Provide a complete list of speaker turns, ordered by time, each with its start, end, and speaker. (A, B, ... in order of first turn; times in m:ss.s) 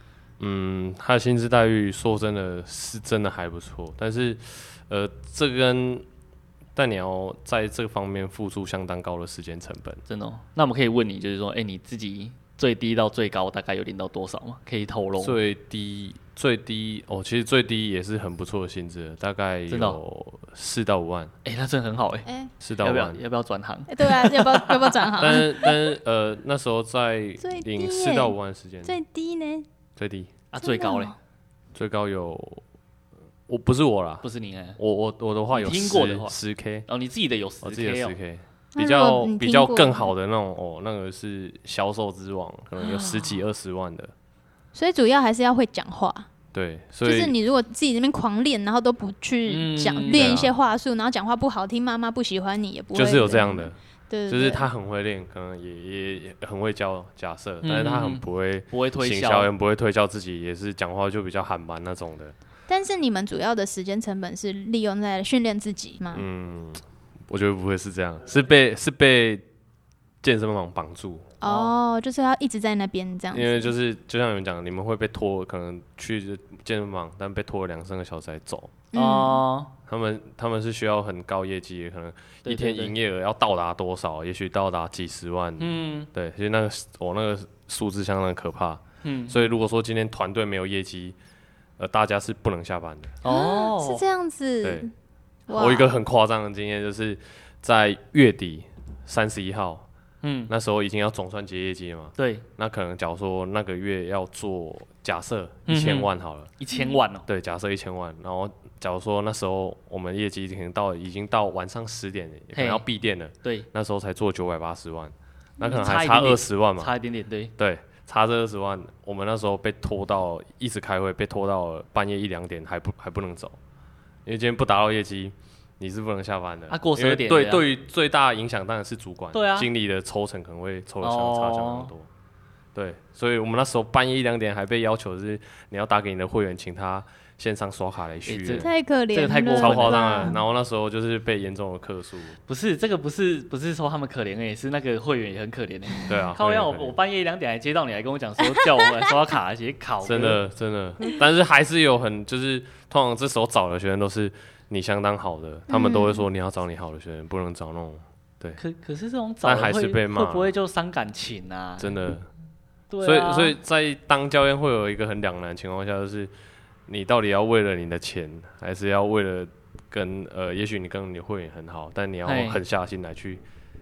0:00.4-0:06.0 A
0:06.8-0:10.0 A
0:10.1-0:15.4 B
0:15.2-0:21.3 A
0:19.7-0:20.0 B
0:21.4-0:22.3 B
0:22.6-0:23.2 A
0:22.8-0:25.4 B
0:23.9-0:25.7 C
0:25.2-0:29.0 A
0:27.4-0:28.3 C
0:28.8-0:29.6 C
0:30.0-0:30.3 A
0:30.5-0:31.1 B
0:30.6-0:31.2 C
0:31.7-0:32.6 A
0:33.5-0:36.9 A
0:34.2-0:34.8 B
0:35.5-0:36.3 B
0:36.9-0:38.1 B
0:37.6-0:44.1 A
0:38.7-0:40.1 C
0:42.8-0:43.4 B
0:44.7-0:46.3 C
0:46.5-0:47.3 A
0:47.0-0:54.7 C
0:49.5-0:50.4 B
0:50.1-0:50.6 A
0:52.9-0:53.8 A
0:54.3-1:02.3 A
0:57.6-0:59.5 B
1:02.7-1:06.2 C
1:06.1-1:09.4 A
1:10.2-1:11.3 A
1:11.4-1:13.7 C
1:11.4-1:11.7 B
1:13.3-1:18.8 A
1:18.9-1:19.4 C
1:18.9-1:19.7 B
1:19.9-1:31.2 A
1:22.4-1:22.9 B
1:25.6-1:26.1 B
1:29.0-1:29.4 B
1:31.8-1:33.2 A
1:33.2-1:34.0 B
1:33.2-1:34.9 C
1:34.6-1:34.9 A
1:35.5-1:36.0 C
1:35.5-1:39.9 A
1:40.2-1:40.5 B
1:40.5-1:46.5 A
1:42.2-1:42.4 B
1:45.7-1:47.3 B
1:46.7-1:47.0 C
1:47.3-1:56.9 A
1:52.5-1:52.8 B
1:55.6-1:57.5 B
1:57.6-2:03.6 A
2:04.2-2:12.1 A
2:06.7-2:07.6 B
2:09.3-2:09.7 B
2:11.0-2:11.9 B
2:12.7-2:18.7 A
2:18.2-2:20.3 B
2:18.6-2:20.4 C
2:19.6-2:22.4 A
2:22.5-2:30.4 B
2:26.1-2:27.0 A
2:30.0-2:38.6 A
2:35.7-2:36.2 C
2:38.6-2:42.0 B
2:39.4-2:40.5 A
2:41.8-2:42.3 A
2:42.9-2:43.6 B
2:43.0-2:46.3 A
2:46.9-2:53.4 A
2:52.2-2:52.6 B